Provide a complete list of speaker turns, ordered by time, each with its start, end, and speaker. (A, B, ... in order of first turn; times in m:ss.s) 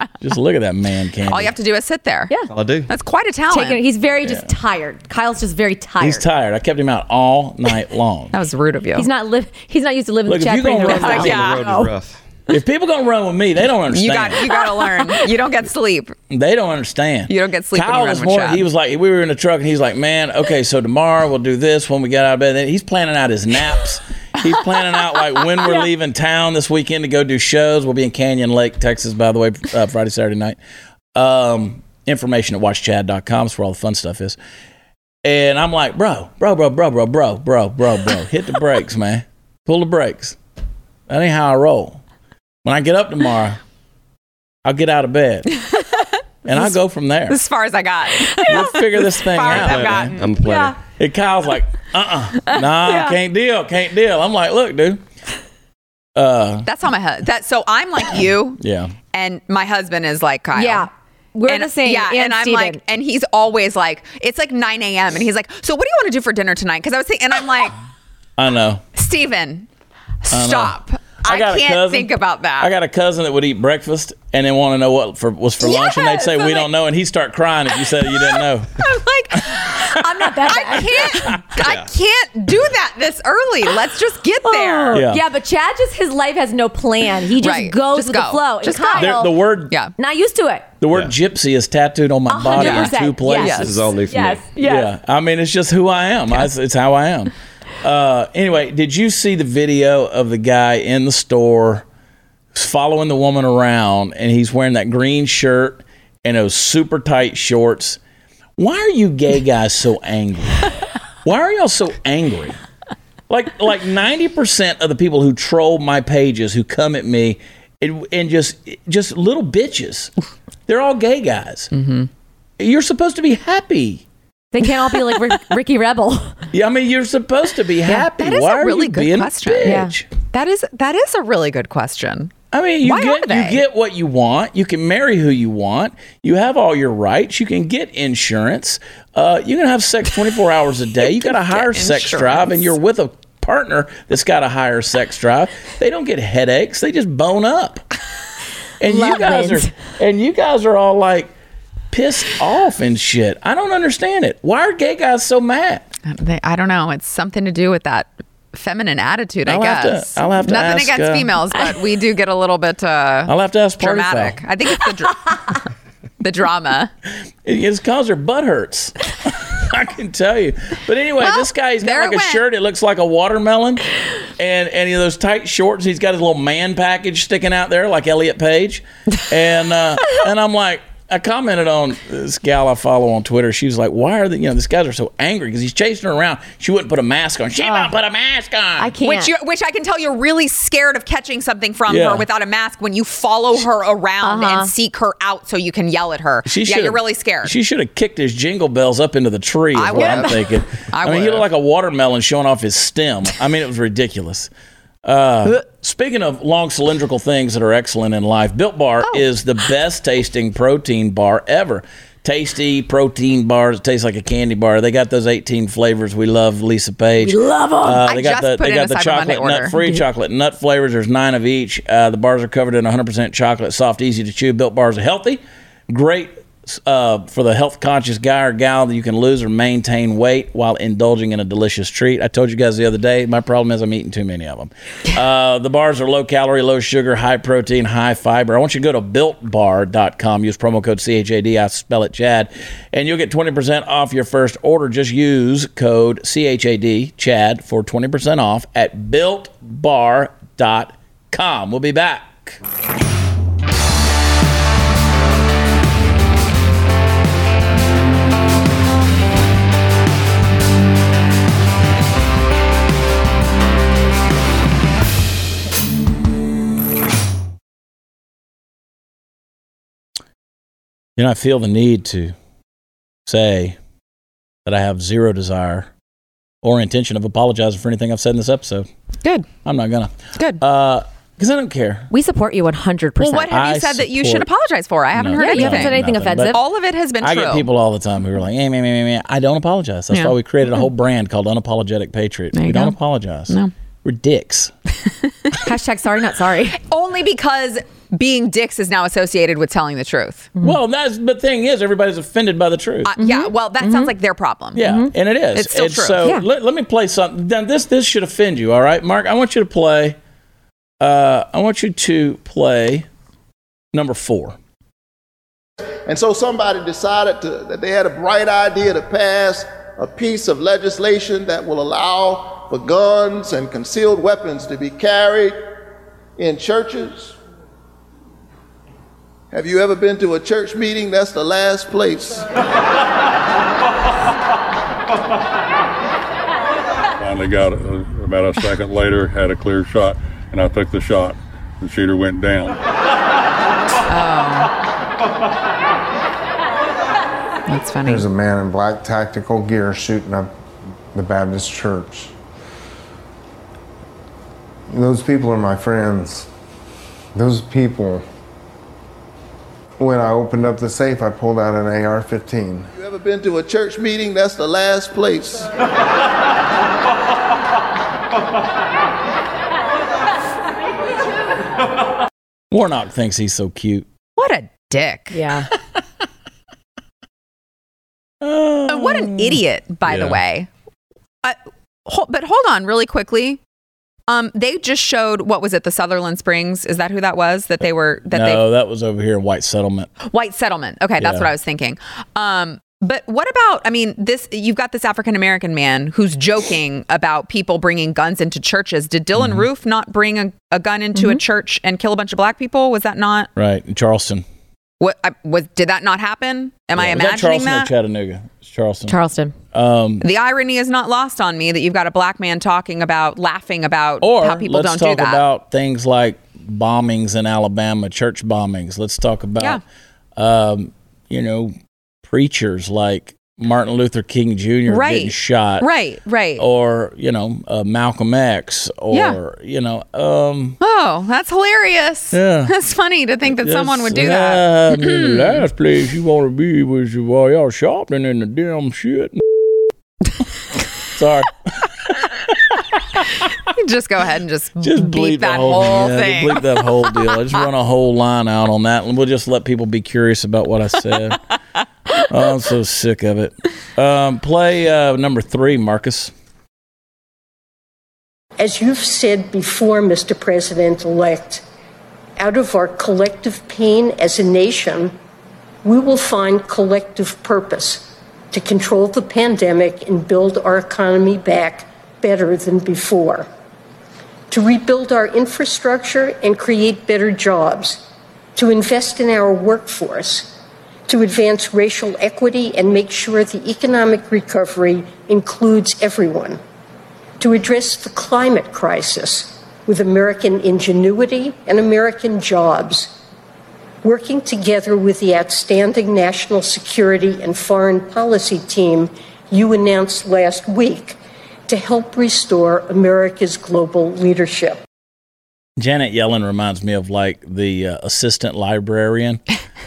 0:00.2-0:01.5 A
0:01.3-0:02.3 B
0:02.5-0:02.9 C
0:02.9-0:03.8 B
0:03.5-0:06.2 D
0:04.2-0:04.5 A
0:06.0-0:08.3 A
0:08.3-0:09.0 B
0:09.0-0:11.9 D
0:10.3-0:11.4 A
0:10.9-0:12.2 C
0:11.1-0:11.6 B
0:12.5-0:14.4 A
0:13.9-0:16.1 B
0:14.5-0:15.2 D
0:16.3-0:30.6 A
0:17.3-0:18.6 B
0:31.1-0:34.4 A
0:35.2-0:40.4 A
0:41.1-0:42.0 A
0:42.6-0:43.6 A
0:44.6-0:45.5 A
0:45.7-0:46.0 B
0:46.4-0:47.4 A
0:47.3-0:50.2 B
0:48.3-0:48.6 D
0:48.5-0:50.1 A
0:49.5-0:50.8 C
0:50.3-0:50.7 D
0:51.0-0:55.0 A
0:56.2-0:56.7 A
0:56.6-0:58.6 B
0:58.6-0:58.9 A
0:59.1-1:00.9 B
1:00.5-1:02.8 D
1:01.5-1:07.8 B
1:08.4-1:08.8 A
1:09.0-1:09.7 B
1:10.2-1:12.7 B
1:10.3-1:18.8 A
1:15.6-1:16.7 B
1:18.8-1:25.0 B
1:19.9-1:21.4 D
1:21.1-1:21.6 A
1:24.4-1:29.3 D
1:24.9-1:25.2 A
1:27.4-1:29.9 B
1:29.0-1:29.7 A
1:29.9-1:30.7 D
1:30.8-1:33.8 A
1:32.3-1:34.9 D
1:32.5-1:33.7 B
1:33.5-1:34.5 C
1:34.6-1:41.8 A
1:42.5-1:48.0 A
1:48.6-1:50.7 A
1:51.2-1:52.6 A
1:53.3-2:00.1 A
2:00.7-2:01.7 A
2:01.7-2:02.1 B
2:02.6-2:04.0 A
2:04.5-2:06.4 D
2:06.5-2:10.0 A
2:08.1-2:12.3 B
2:09.6-2:09.9 D
2:12.5-2:27.8 A
2:12.8-2:13.6 D
2:21.3-2:22.7 B
2:28.8-2:31.3 A
2:28.9-2:29.7 D
2:31.9-2:35.9 A
2:36.0-2:45.6 B
2:39.4-2:41.3 A
2:43.3-2:44.4 A
2:46.2-2:46.9 B
2:47.4-2:53.8 A
2:51.2-2:52.4 B
2:54.4-3:08.9 A
3:07.6-3:07.9 D
3:08.8-3:09.3 D
3:09.0-3:17.5 B
3:11.9-3:12.2 A
3:14.2-3:14.7 D
3:16.4-3:24.5 A
3:19.7-3:21.4 B
3:25.0-4:12.6 A
3:37.2-3:38.0 D
3:38.0-3:39.7 B
3:39.8-3:40.0 D
4:31.2-4:32.3 A
4:33.2-4:33.8 A
4:34.6-4:35.9 A
4:36.6-4:38.9 A
4:39.6-4:42.1 A
4:40.4-4:40.6 B
4:42.1-4:43.5 D
4:43.2-4:46.0 B
4:43.5-4:44.4 A
4:45.1-4:46.6 A
4:45.4-4:46.6 D
4:46.5-4:47.7 B
4:47.2-4:54.7 A
4:52.5-4:52.9 B
4:55.6-4:56.8 D
4:56.7-5:00.5 B
5:00.6-5:03.1 A
5:03.0-5:04.8 B
5:03.2-5:04.1 D
5:04.7-5:10.2 A
5:04.8-5:05.1 D
5:05.6-5:06.2 B
5:11.0-5:13.1 A
5:13.9-5:14.6 A
5:16.0-5:25.6 E
5:26.4-5:27.4 E
5:29.5-5:32.5 E
5:37.2-5:42.8 F
5:44.1-5:44.7 B
5:47.7-5:48.2 B
5:48.0-5:50.5 G
5:51.1-5:52.3 G
5:54.9-5:56.5 G
5:57.4-5:58.2 G
6:00.0-6:02.9 G
6:02.9-6:05.7 E
6:12.7-6:14.0 A
6:14.4-6:15.4 B
6:15.3-6:15.7 D
6:18.4-6:20.4 A
6:18.9-6:20.7 B
6:21.4-6:23.6 B
6:24.3-6:28.6 B
6:28.3-6:30.1 A
6:30.2-6:43.5 B
6:31.2-6:31.5 A
6:39.4-6:39.6 A
6:43.6-6:44.4 A
6:45.0-6:47.9 B
6:46.9-6:49.2 A
6:49.1-6:49.5 D
6:49.7-6:50.2 A
6:50.2-6:55.4 B
6:54.2-6:59.8 A
7:00.4-7:05.9 A
7:04.9-7:06.6 B
7:06.6-7:10.8 A
7:09.1-7:09.4 B
7:10.8-7:15.5 B
7:12.3-7:12.7 A
7:13.5-7:19.4 A
7:21.1-7:22.8 A
7:23.7-7:26.6 B
7:24.8-7:31.4 A
7:32.3-7:36.3 A
7:38.6-7:41.6 H
7:42.4-7:45.2 H
7:45.8-7:53.5 H
7:54.5-7:58.0 H
7:58.6-8:06.6 H
8:07.4-8:13.2 H
8:14.0-8:21.2 H
8:21.7-8:24.8 H
8:25.8-8:29.4 A